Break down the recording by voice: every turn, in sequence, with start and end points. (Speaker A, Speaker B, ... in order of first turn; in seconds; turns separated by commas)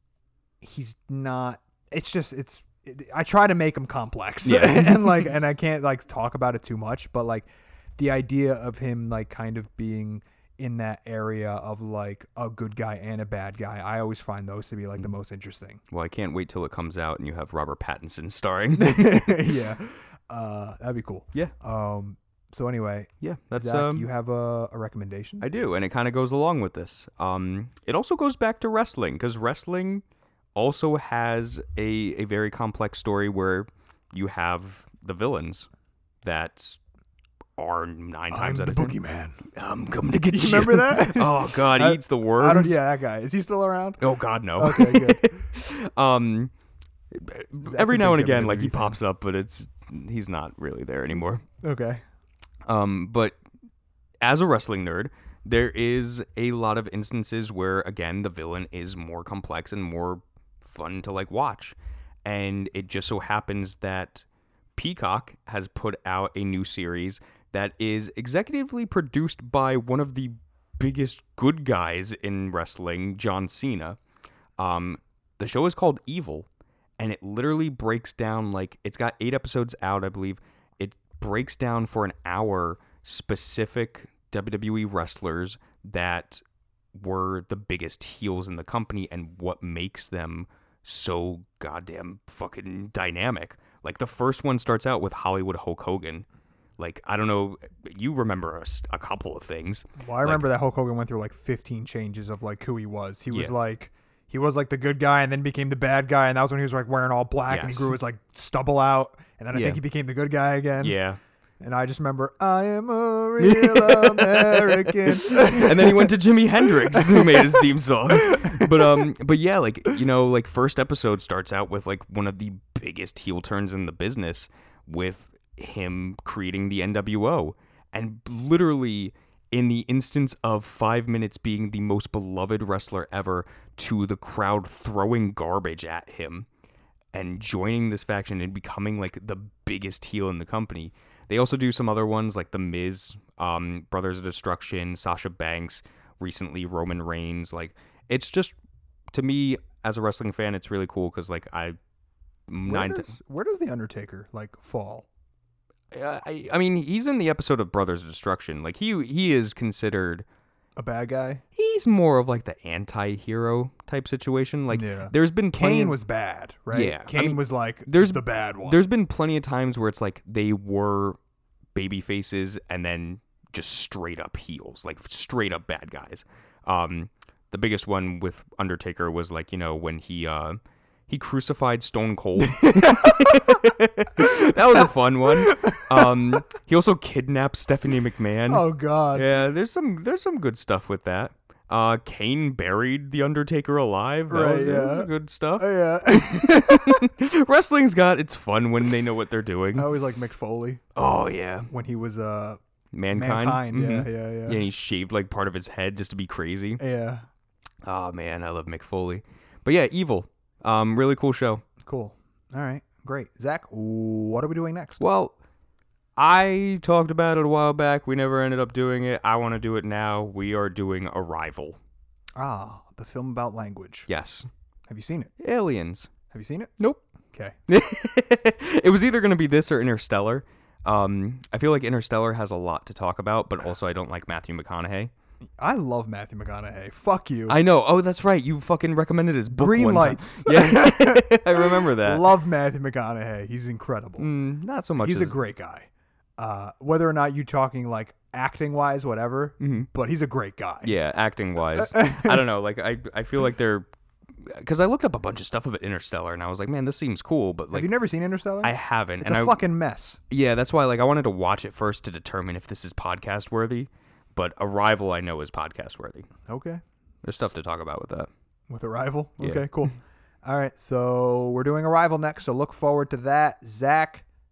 Speaker A: 0.6-15.8, Speaker B: 4.4-5.3, Speaker B: 15.9-19.5, Speaker A: 18.8-25.4, Speaker B: 23.2-24.1, Speaker B: 25.4-30.0, Speaker B: 30.5-35.7, Speaker B: 36.2-36.8, Speaker B: 37.6-42.8, Speaker A: 38.3-39.4, Speaker A: 40.1-44.0, Speaker B: 44.0-46.5, Speaker A: 44.6-45.5, Speaker B: 47.1-51.4, Speaker A: 47.6-49.0, Speaker A: 51.6-52.0, Speaker B: 52.6-53.4, Speaker B: 54.2-64.2, Speaker B: 64.8-74.0, Speaker B: 74.6-76.5, Speaker B: 77.0-86.4, Speaker B: 86.9-96.2, Speaker B: 96.8-100.5, Speaker A: 100.0-111.0, Speaker B: 107.5-107.9, Speaker B: 109.5-109.8, Speaker B: 110.8-111.2, Speaker A: 111.6-119.1, Speaker B: 113.4-136.5, Speaker B: 137.1-148.6, Speaker B: 149.1-151.8, Speaker B: 152.5-153.1, Speaker A: 152.6-155.1, Speaker B: 155.9-160.2, Speaker A: 160.8-161.4, Speaker B: 161.5-166.0, Speaker A: 164.7-168.8, Speaker B: 166.7-171.2, Speaker B: 171.7-199.9, Speaker A: 182.6-183.6, Speaker A: 184.2-184.9, Speaker A: 185.4-186.4, Speaker A: 188.5-189.3, Speaker A: 194.3-197.1, Speaker A: 199.7-200.8, Speaker B: 200.9-201.7, Speaker A: 201.7-202.6, Speaker B: 202.9-206.8, Speaker A: 203.1-204.6, Speaker A: 206.8-207.3, Speaker B: 207.8-211.6, Speaker A: 211.8-215.0, Speaker B: 215.0-215.4, Speaker B: 216.2-221.8, Speaker A: 222.4-224.1, Speaker B: 224.1-224.5, Speaker A: 224.9-225.3, Speaker B: 225.4-226.1, Speaker A: 226.3-226.7, Speaker B: 226.8-227.0, Speaker B: 227.7-235.1, Speaker A: 235.6-237.6, Speaker B: 237.5-242.3, Speaker A: 239.5-244.3, Speaker B: 244.2-245.3, Speaker A: 245.0-250.9, Speaker B: 249.6-249.9, Speaker B: 250.8-253.9, Speaker A: 251.7-252.4, Speaker B: 254.4-257.9, Speaker A: 257.7-260.2, Speaker B: 258.6-259.6, Speaker B: 260.3-266.3, Speaker A: 266.5-266.8, Speaker B: 267.2-268.3, Speaker A: 268.7-274.2, Speaker B: 269.4-269.7